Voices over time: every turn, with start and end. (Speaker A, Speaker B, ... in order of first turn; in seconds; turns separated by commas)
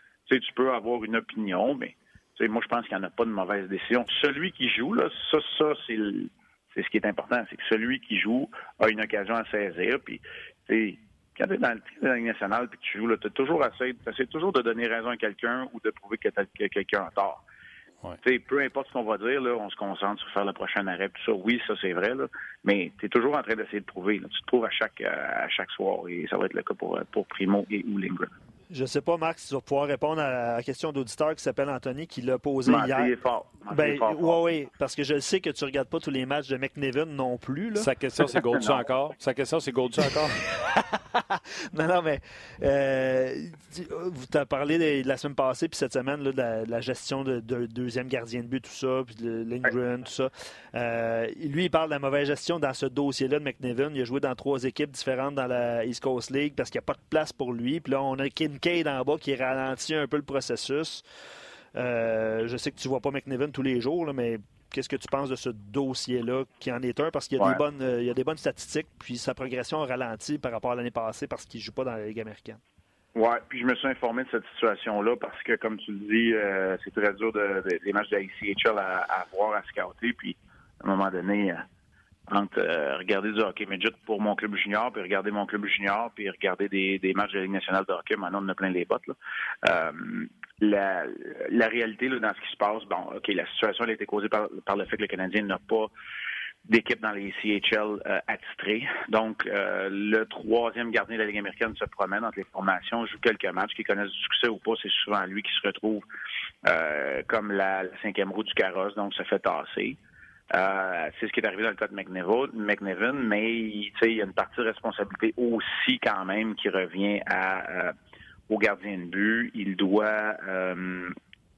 Speaker A: 0.3-17.4, Speaker A: 18.2-28.3, Speaker B: 28.7-33.1, Speaker A: 32.6-34.4, Speaker B: 33.7-37.9, Speaker C: 37.8-40.4, Speaker B: 40.0-61.0, Speaker B: 61.7-72.6, Speaker A: 73.1-81.6, Speaker A: 82.3-95.9, Speaker A: 96.7-106.0, Speaker A: 106.6-110.0, Speaker A: 110.5-117.9, Speaker A: 118.5-121.2